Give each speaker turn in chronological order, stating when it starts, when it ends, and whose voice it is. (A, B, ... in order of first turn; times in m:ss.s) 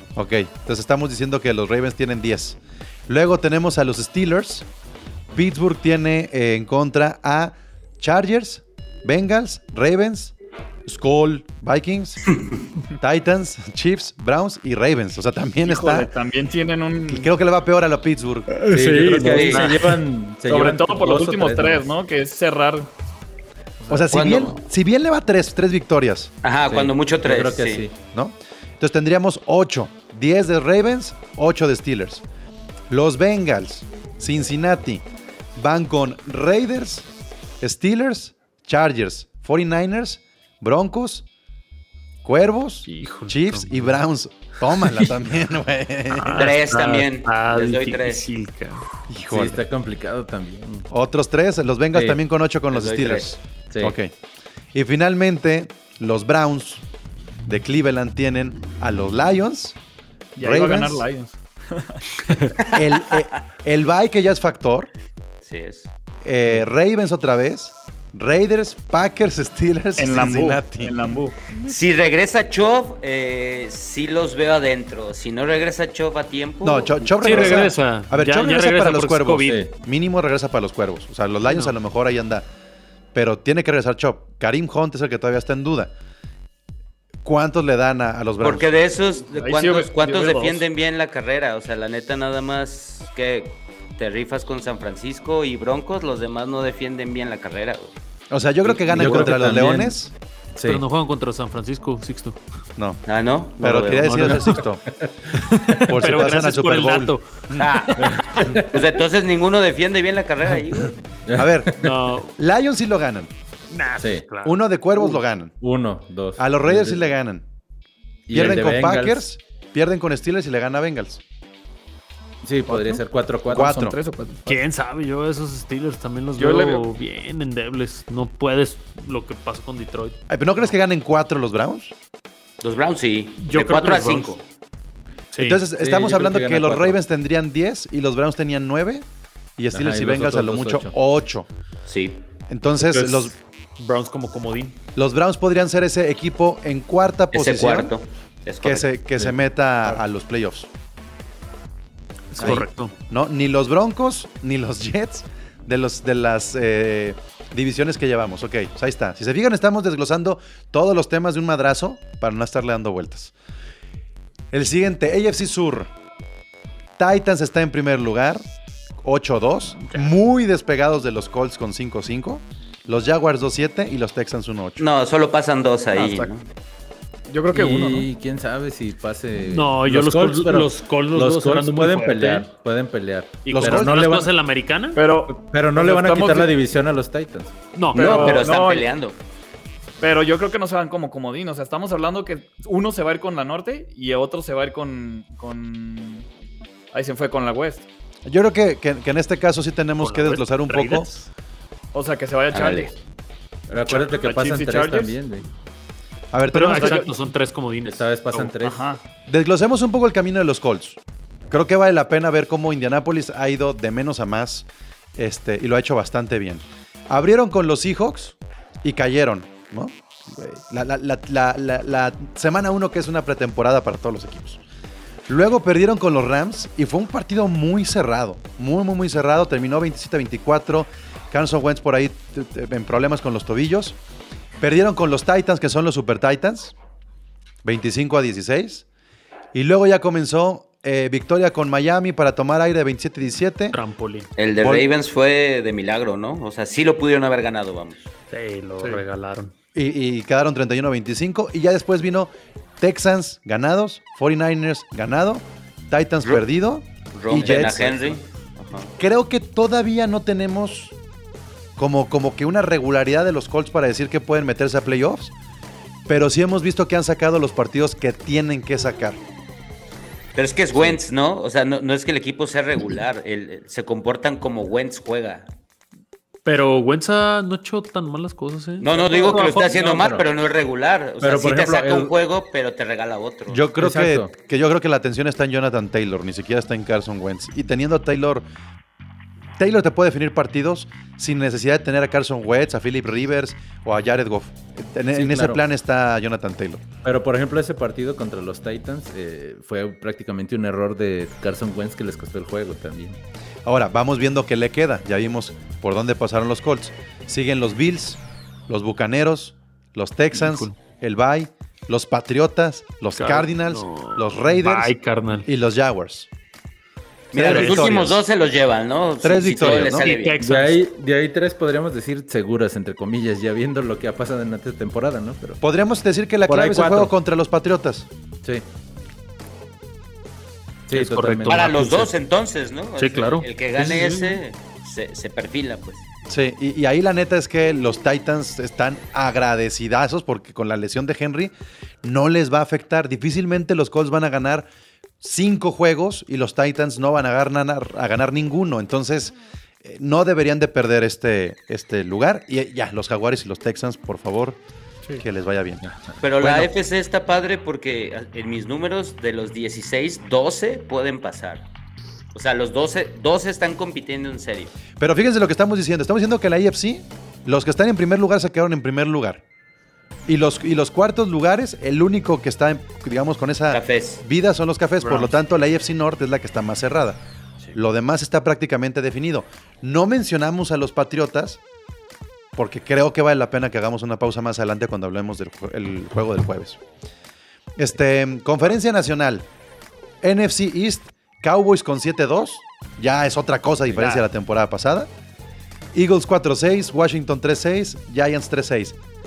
0:00.2-0:04.7 A
0:05.3-0:10.3 A
0:10.8-0:12.4 A
0:13.0-0:16.1 A
0:15.6-0:17.3 B
0:17.1-0:18.6 A
0:18.5-0:20.0 C
0:18.7-0:21.9 D
0:19.2-0:19.7 E
0:20.4-0:22.9 B
0:23.8-0:24.2 B
0:23.9-0:26.3 A
0:24.1-0:24.6 E
0:26.4-0:27.8 E
0:26.7-0:27.9 D
0:28.1-0:32.2 A
0:32.9-0:35.0 A
0:35.6-0:37.1 A
0:37.6-0:41.2 A
0:42.2-0:46.5 A
0:42.9-0:43.9 C
0:46.1-0:48.9 C
0:46.3-0:48.2 E
0:49.1-0:49.6 A
0:49.3-0:50.9 D
0:50.9-0:54.1 A
0:52.7-0:53.3 E
0:53.7-0:54.0 D
0:54.7-0:56.8 A
0:57.4-0:59.8 A
1:00.4-1:02.0 B
1:00.4-1:01.0 A
1:02.7-1:03.2 E
1:02.7-1:04.9 A
1:05.4-1:05.9 E
1:06.2-1:11.0 A
1:10.0-1:11.5 B
1:11.6-1:17.7 E
1:16.6-1:22.4 A
1:17.2-1:19.6 C
1:21.4-1:21.7 C
1:23.1-1:25.9 A
1:27.2-1:28.7 A
1:28.4-1:37.9 E
1:29.4-1:30.6 B
1:38.3-1:40.1 A
1:38.6-1:39.3 E
1:38.9-1:40.0 D
1:40.6-1:40.8 D
1:40.6-1:42.4 C
1:43.1-1:44.5 E
1:43.6-1:44.8 A
1:44.0-1:44.6 C
1:45.4-1:47.4 C
1:45.8-1:47.7 A
1:47.6-1:51.0 E
1:48.0-1:48.8 D
1:51.2-1:51.9 D
1:51.3-1:51.8 A
1:51.8-1:52.4 C
1:52.4-1:53.3 A
1:53.7-1:54.6 C
1:54.0-1:54.2 D
1:54.4-1:55.5 A
1:55.6-1:57.0 D
1:56.4-1:57.4 A
1:58.3-1:59.2 D
1:58.3-2:01.2 A
2:02.4-2:03.7 D
2:02.7-2:04.6 B
2:03.5-2:04.0 A
2:04.5-2:10.2 C
2:06.4-2:06.8 B
2:10.3-2:11.9 A
2:12.6-2:14.4 E
2:13.4-2:14.3 C
2:15.3-2:15.6 C
2:15.4-2:19.0 A
2:15.8-2:17.0 D
2:19.6-2:21.5 A
2:19.7-2:20.9 D
2:21.9-2:22.2 E
2:22.5-2:23.3 A
2:22.9-2:24.7 C
2:24.9-2:27.9 A
2:27.3-2:28.9 E
2:28.6-2:30.7 A
2:32.3-2:32.9 C
2:32.4-2:43.3 A
2:44.5-2:45.9 A
2:47.0-2:48.4 A
2:49.0-2:54.8 A
2:54.8-2:56.4 E
2:55.9-2:56.3 B
2:57.3-2:58.1 B
2:57.5-3:04.0 D
2:59.5-3:02.4 C
3:03.4-3:05.0 C
3:03.5-3:04.3 A
3:05.0-3:06.5 B
3:05.3-3:07.6 D
3:07.7-3:08.5 C
3:07.9-3:08.9 B
3:07.9-3:09.2 E
3:10.0-3:16.2 B
3:16.9-3:17.8 B
3:18.2-3:21.1 A
3:20.0-3:21.3 C
3:21.9-3:23.0 B
3:22.5-3:22.9 E
3:23.7-3:25.5 D
3:23.9-3:25.2 B
3:26.3-3:27.0 A
3:26.5-3:28.5 C
3:26.8-3:27.1 B
3:27.8-3:28.8 D
3:28.6-3:29.0 B
3:29.3-3:31.0 A
3:31.5-3:44.6 A
3:45.3-3:54.0 A
3:54.6-3:56.7 A
3:57.6-3:58.8 A
3:59.5-4:03.8 A
4:03.7-4:04.3 C
4:04.4-4:08.1 E
4:04.6-4:04.9 A
4:08.3-4:09.5 C
4:09.7-4:18.2 A
4:17.1-4:18.9 E
4:17.4-4:17.8 D
4:19.0-4:20.9 A
4:21.8-4:25.3 A
4:26.1-4:29.2 A
4:30.3-4:35.5 E
4:36.4-4:39.7 C
4:38.8-4:43.7 E
4:39.5-4:40.2 D
4:41.2-4:42.1 D
4:43.5-4:48.4 A
4:43.8-4:44.3 D
4:49.6-4:56.9 A
4:55.1-4:55.6 D
4:57.0-5:03.2 D
5:03.6-5:16.3 A
5:10.3-5:10.7 C
5:13.1-5:15.5 C
5:17.3-5:20.4 E
5:17.3-5:18.2 A
5:17.4-5:18.2 C
5:19.2-5:20.1 A
5:19.6-5:20.8 C
5:20.4-5:25.6 D
5:25.6-5:28.1 A
5:26.5-5:27.1 D
5:30.9-5:32.0 D
5:30.9-5:32.1 C
5:31.4-5:36.0 E
5:33.0-5:34.4 C
5:36.3-5:44.7 A
5:45.2-5:54.6 A
5:55.2-5:55.8 A
5:55.8-5:56.1 D
5:56.2-6:01.6 E
5:56.4-5:56.7 A
6:02.3-6:04.7 E
6:05.0-6:09.4 A
6:10.3-6:17.2 A
6:13.7-6:14.2 E
6:15.0-6:15.3 C
6:17.7-6:21.6 A
6:22.5-6:26.8 A
6:27.8-6:29.4 A
6:30.2-6:35.1 A
6:33.9-6:34.2 D
6:35.9-6:39.0 A